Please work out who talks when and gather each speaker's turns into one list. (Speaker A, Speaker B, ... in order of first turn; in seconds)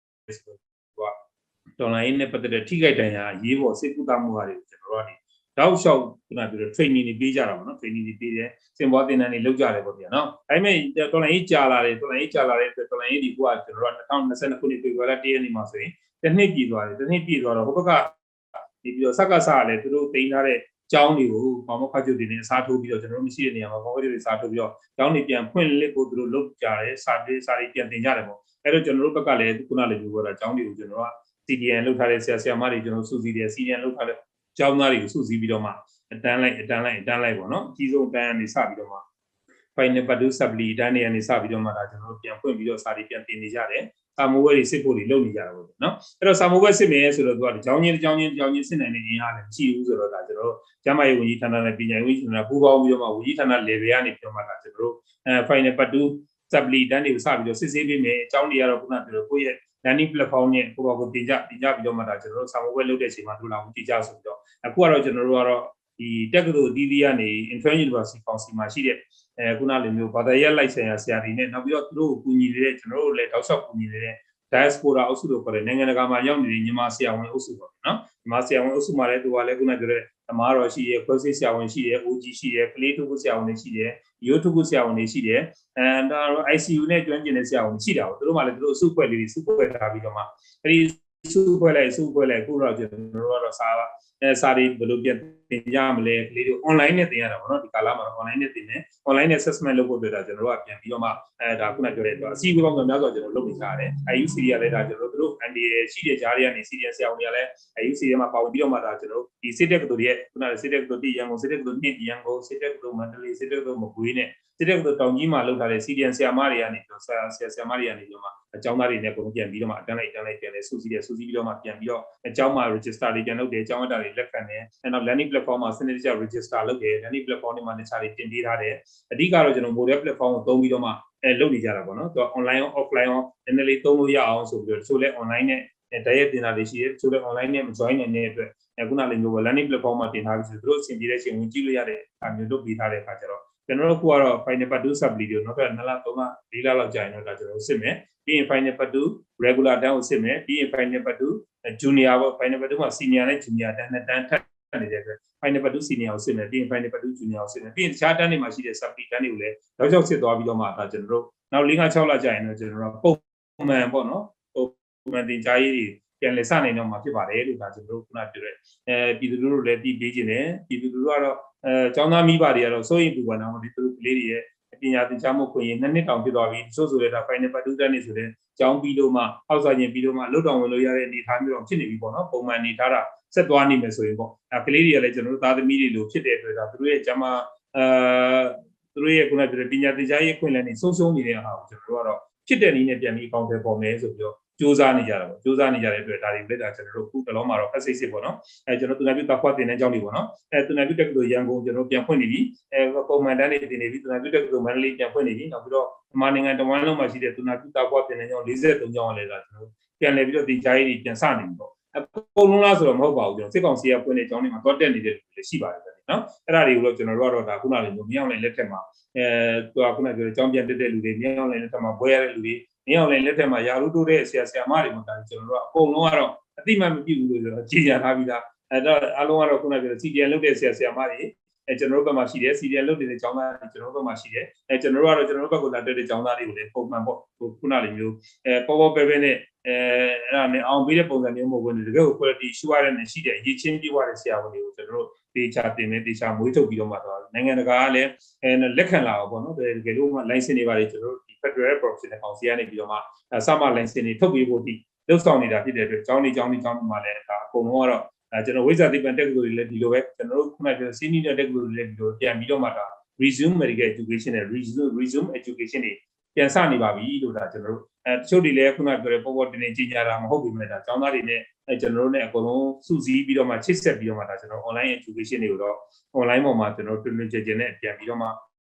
Speaker A: 0.3-1.1, 1.8-18.2, 18.8-39.0, 39.8-278.4